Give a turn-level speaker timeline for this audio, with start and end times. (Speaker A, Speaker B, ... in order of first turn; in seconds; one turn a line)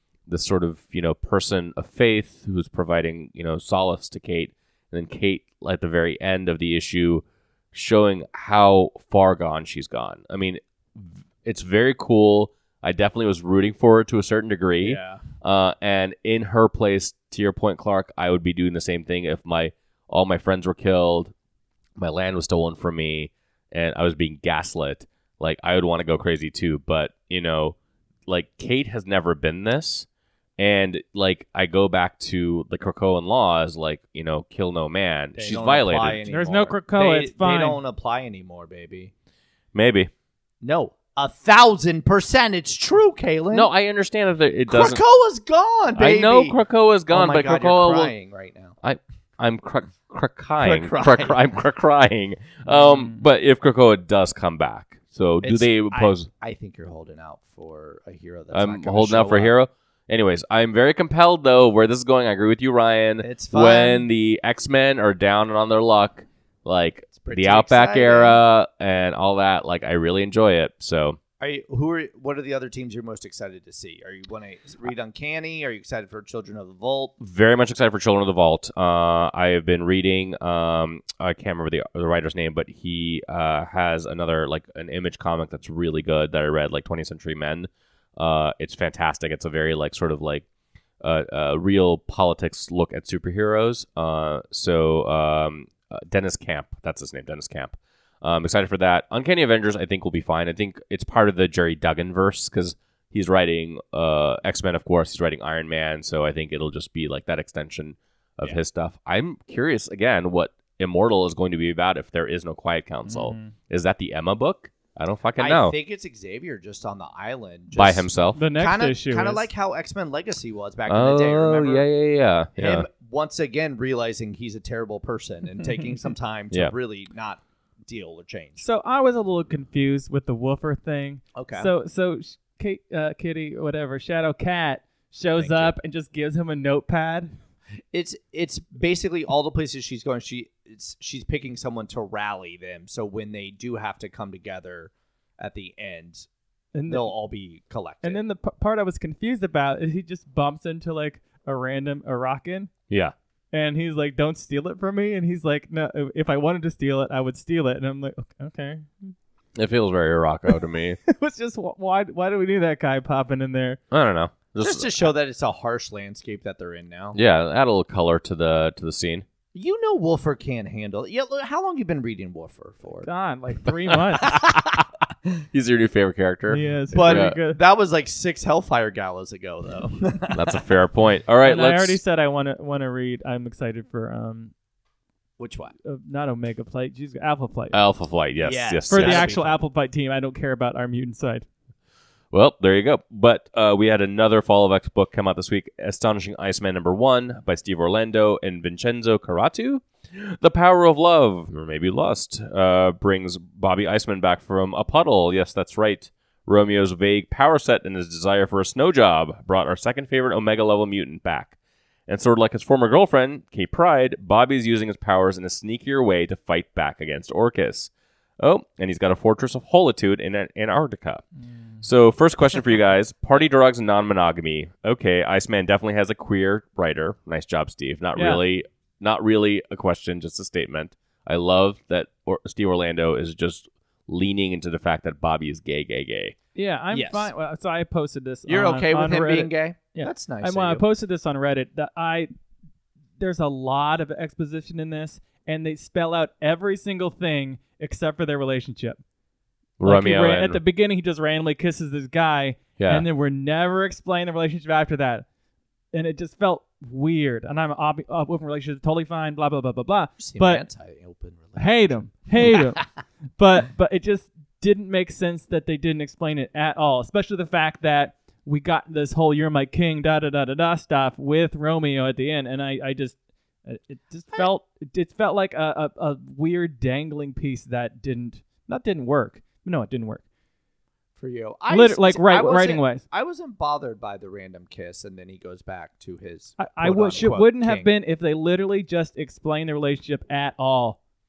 Speaker A: 0.3-21.3
Speaker B: 14.8-15.2
Speaker A: 22.0-27.8
Speaker A: 28.3-30.1
Speaker A: 30.6-36.2
Speaker B: 35.3-39.1
Speaker C: 36.3-37.8
Speaker A: 39.7-40.1
Speaker B: 40.6-43.7
Speaker A: 43.5-45.0
Speaker B: 44.7-46.6
Speaker A: 45.9-48.1
Speaker B: 47.1-48.8
Speaker A: 48.8-56.3
Speaker B: 50.6-51.4
Speaker C: 52.8-53.1
Speaker B: 55.4-59.5
Speaker A: 58.5-71.2
Speaker B: 63.2-64.1
Speaker B: 67.2-68.4
Speaker B: 71.4-77.1
Speaker A: 77.2-90.4
Speaker A: 91.0-115.7
Speaker C: 113.1-113.5
Speaker B: 115.4-121.8
Speaker A: 117.7-118.4
Speaker C: 118.3-119.5
Speaker A: 120.9-122.9
Speaker B: 122.6-128.6
Speaker C: 128.6-137.3
Speaker B: 131.3-131.7
Speaker B: 135.4-135.7
Speaker B: 137.9-146.2
Speaker C: 146.7-147.1
Speaker B: 146.9-148.2
Speaker C: 148.0-152.7
Speaker C: 153.5-159.1
Speaker A: 159.6-161.0
Speaker C: 161.0-163.8
Speaker A: 163.9-165.0
Speaker B: 164.6-167.2
Speaker A: 167.1-169.2
Speaker B: 169.5-173.1
Speaker C: 173.0-174.4
Speaker A: 174.2-174.8
Speaker B: 174.2-174.6
Speaker A: 175.5-177.3
Speaker C: 176.5-177.6
Speaker B: 176.9-180.6
Speaker A: 180.3-182.0
Speaker C: 181.4-184.5
Speaker B: 185.4-185.7
Speaker C: 185.8-187.8
Speaker A: 187.7-189.3
Speaker B: 188.4-189.6
Speaker C: 188.9-191.4
Speaker A: 192.3-211.5
Speaker A: 212.1-221.2
Speaker A: 221.8-236.3
Speaker C: 228.2-228.4
Speaker C: 236.5-242.3
Speaker B: 236.9-237.3
Speaker B: 238.5-240.8
Speaker C: 243.2-249.0
Speaker A: 249.8-250.6
Speaker C: 249.8-255.2
Speaker A: 252.8-253.1
Speaker C: 255.9-260.6
Speaker B: 260.2-262.7
Speaker C: 261.6-262.9
Speaker C: 263.4-280.2
Speaker B: 281.2-287.9
Speaker C: 281.7-283.0
Speaker C: 286.6-291.0